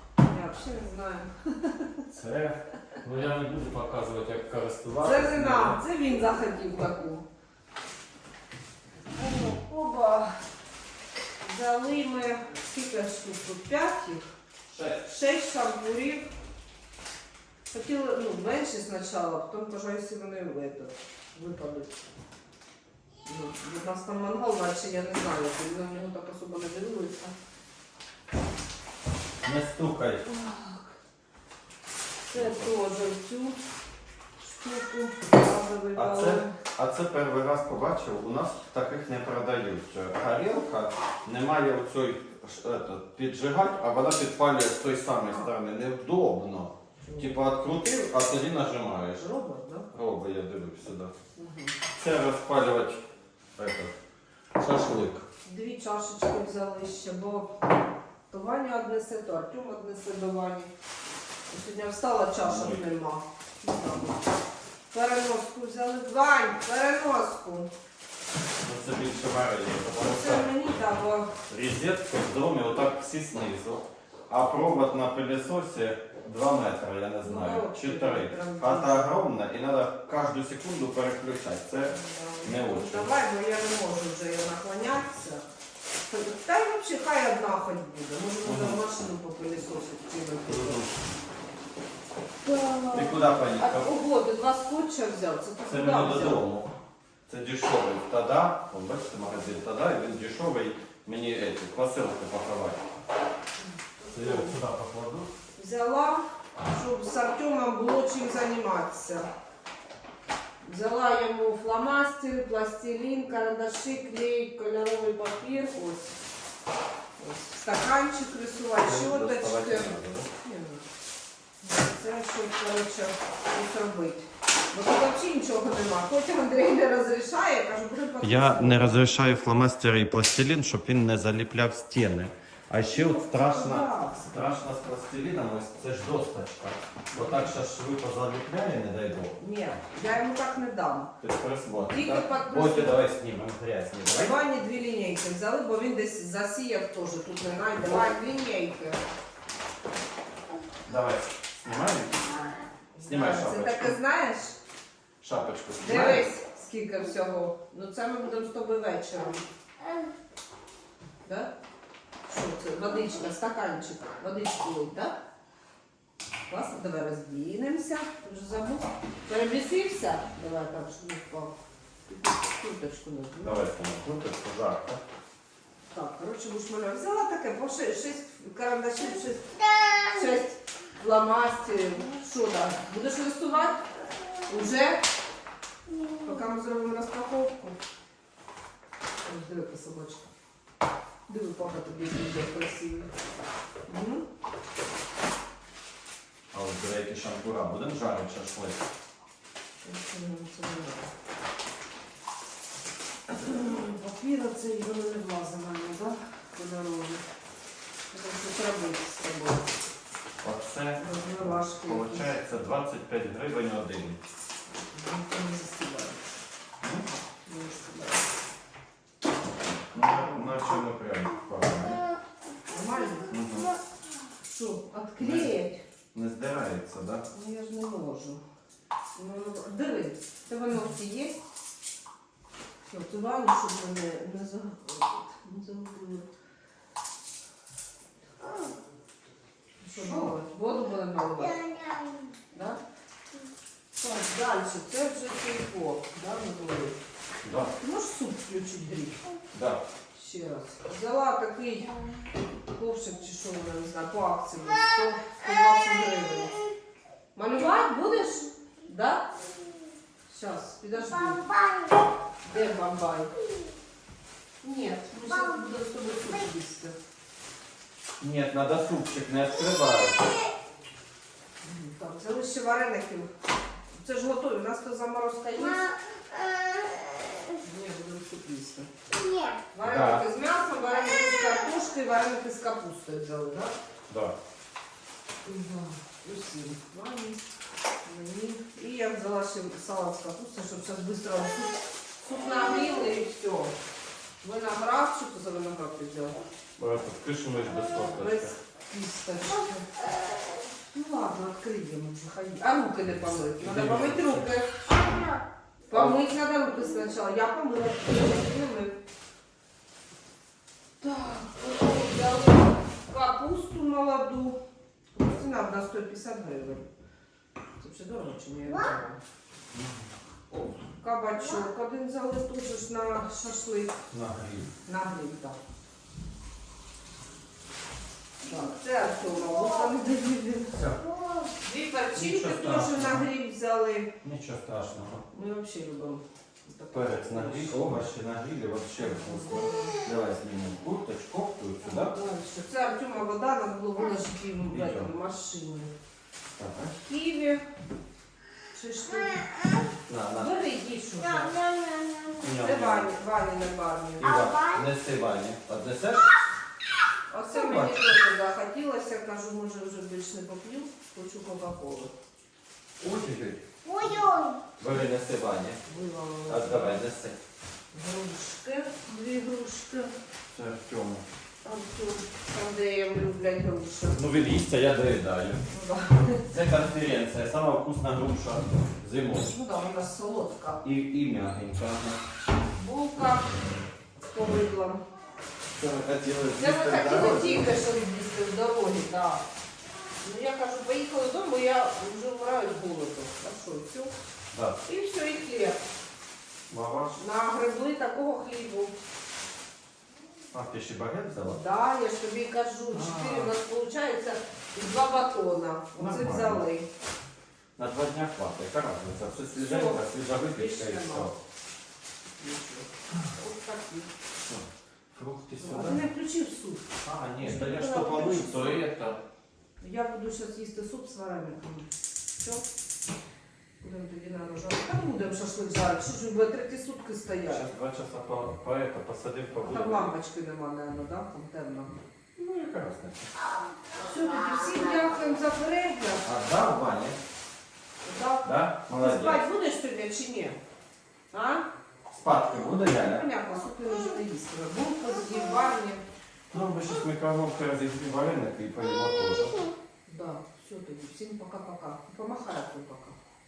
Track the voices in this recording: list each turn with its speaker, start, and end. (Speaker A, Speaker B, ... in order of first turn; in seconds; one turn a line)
Speaker A: 0.2-2.0
Speaker B: 2.1-5.8
Speaker A: 5.0-7.2
Speaker A: 9.1-10.4
Speaker A: 11.4-14.2
Speaker B: 14.7-15.1
Speaker A: 15.0-16.3
Speaker A: 17.7-22.0
Speaker A: 23.2-27.4
Speaker B: 29.4-30.3
Speaker A: 30.3-30.9
Speaker A: 32.2-33.6
Speaker B: 32.3-32.7
Speaker A: 34.4-36.5
Speaker B: 36.0-49.2
Speaker A: 47.0-47.3
Speaker A: 49.2-49.9
Speaker B: 49.9-51.1
Speaker A: 51.4-51.8
Speaker B: 52.0-54.0
Speaker B: 54.6-55.3
Speaker A: 55.5-57.5
Speaker A: 58.3-60.7
Speaker A: 61.5-64.3
Speaker B: 62.4-62.8
Speaker A: 64.9-67.7
Speaker B: 68.6-70.5
Speaker A: 70.0-71.3
Speaker B: 71.5-83.1
Speaker A: 77.2-79.2
Speaker A: 81.8-85.5
Speaker A: 86.1-90.8
Speaker B: 88.4-88.8
Speaker B: 90.5-91.0
Speaker A: 92.4-96.4
Speaker B: 92.9-93.9
Speaker B: 95.7-96.7
Speaker B: 97.3-102.8
Speaker A: 103.9-104.5
Speaker B: 104.1-105.3
Speaker A: 105.5-109.3
Speaker A: 110.6-116.2
Speaker A: 117.2-120.8
Speaker B: 118.8-120.3
Speaker A: 121.6-129.1
Speaker B: 128.2-139.4
Speaker A: 132.8-134.3
Speaker A: 137.1-137.5
Speaker A: 139.4-141.1
Speaker B: 141.2-144.4
Speaker A: 141.9-143.0
Speaker A: 144.1-149.0
Speaker B: 147.8-148.2
Speaker B: 150.9-152.5
Speaker A: 152.9-154.6
Speaker B: 153.0-154.0
Speaker B: 155.2-156.3
Speaker A: 155.8-159.4
Speaker A: 161.2-161.5
Speaker A: 162.3-165.2
Speaker A: 166.5-171.6
Speaker A: 172.1-173.6
Speaker B: 173.4-175.0
Speaker A: 175.9-183.9
Speaker A: 184.5-185.0
Speaker A: 186.1-187.8
Speaker A: 189.2-190.3
Speaker A: 191.3-193.1
Speaker A: 193.9-194.2
Speaker B: 196.5-198.8
Speaker A: 199.8-201.1
Speaker A: 203.3-207.2
Speaker A: 208.1-209.8
Speaker B: 210.4-214.2
Speaker A: 211.0-212.3
Speaker A: 214.7-216.2
Speaker B: 216.8-217.1
Speaker A: 217.4-218.2
Speaker A: 219.9-220.8
Speaker B: 219.9-222.0
Speaker A: 222.7-223.4
Speaker B: 223.3-223.7
Speaker A: 224.4-225.8
Speaker B: 225.2-225.5
Speaker B: 226.1-227.2
Speaker A: 227.3-228.4
Speaker A: 229.2-231.4
Speaker A: 232.9-236.3
Speaker A: 239.8-241.7
Speaker A: 242.5-242.8
Speaker A: 244.0-247.0
Speaker B: 247.4-247.7
Speaker A: 247.8-249.2
Speaker B: 249.5-249.8
Speaker A: 250.1-252.0
Speaker A: 252.7-256.6
Speaker A: 257.4-259.3
Speaker A: 260.3-261.7
Speaker A: 262.4-263.3
Speaker A: 264.6-267.0
Speaker B: 268.2-270.3
Speaker A: 271.6-273.3
Speaker A: 273.9-275.9
Speaker A: 277.6-278.9
Speaker A: 279.7-283.7
Speaker B: 279.8-280.2
Speaker B: 284.1-284.4
Speaker A: 285.4-287.4
Speaker A: 288.1-293.8
Speaker A: 294.4-296.4
Speaker B: 296.8-298.5
Speaker A: 298.2-300.0
Speaker A: 300.6-304.7
Speaker B: 303.2-304.5
Speaker A: 305.9-309.0
Speaker A: 311.0-314.6
Speaker A: 315.1-316.9
Speaker A: 317.8-319.2
Speaker B: 319.7-320.0
Speaker A: 320.8-323.9
Speaker B: 324.1-324.7
Speaker A: 324.9-325.6
Speaker A: 328.4-330.9
Speaker B: 330.8-331.1
Speaker A: 331.6-334.1
Speaker B: 332.1-333.2
Speaker B: 334.2-335.2
Speaker A: 335.3-337.9
Speaker B: 336.9-342.1
Speaker A: 339.0-340.0
Speaker A: 341.8-345.9
Speaker B: 344.7-345.1
Speaker B: 346.6-346.9
Speaker A: 347.0-347.6
Speaker A: 348.7-349.7
Speaker B: 350.1-350.5
Speaker A: 350.4-351.7
Speaker B: 352.4-353.1
Speaker A: 352.5-354.3
Speaker B: 354.2-356.3
Speaker A: 357.3-362.1
Speaker B: 357.5-358.1
Speaker B: 363.0-363.7
Speaker B: 364.8-365.8
Speaker A: 365.9-367.0
Speaker B: 366.5-367.4
Speaker A: 367.9-370.1
Speaker B: 370.5-371.2
Speaker A: 371.6-374.2
Speaker B: 374.1-375.6
Speaker A: 375.7-376.5
Speaker B: 376.4-379.5
Speaker A: 379.4-380.8
Speaker B: 380.8-382.2
Speaker A: 382.8-383.5
Speaker A: 384.3-385.0
Speaker B: 385.7-387.8
Speaker A: 386.6-389.4
Speaker A: 390.2-394.1
Speaker B: 394.5-394.8
Speaker A: 394.9-395.8
Speaker B: 396.7-397.2
Speaker A: 397.2-398.9
Speaker B: 400.5-401.6
Speaker A: 401.5-406.9
Speaker B: 402.9-403.5
Speaker B: 406.0-406.6
Speaker B: 407.8-411.4
Speaker A: 409.6-411.3
Speaker A: 412.4-414.1
Speaker B: 414.5-416.1
Speaker A: 415.6-418.8
Speaker B: 417.0-419.2
Speaker A: 419.8-422.6
Speaker A: 423.8-427.6
Speaker B: 427.5-430.1
Speaker A: 429.6-431.9
Speaker B: 432.4-433.3
Speaker A: 434.0-436.3
Speaker B: 436.2-437.2
Speaker A: 438.0-440.6
Speaker B: 438.4-439.4
Speaker A: 441.3-441.7
Speaker B: 442.1-443.2
Speaker A: 443.0-446.0
Speaker B: 446.5-449.7
Speaker A: 450.1-453.2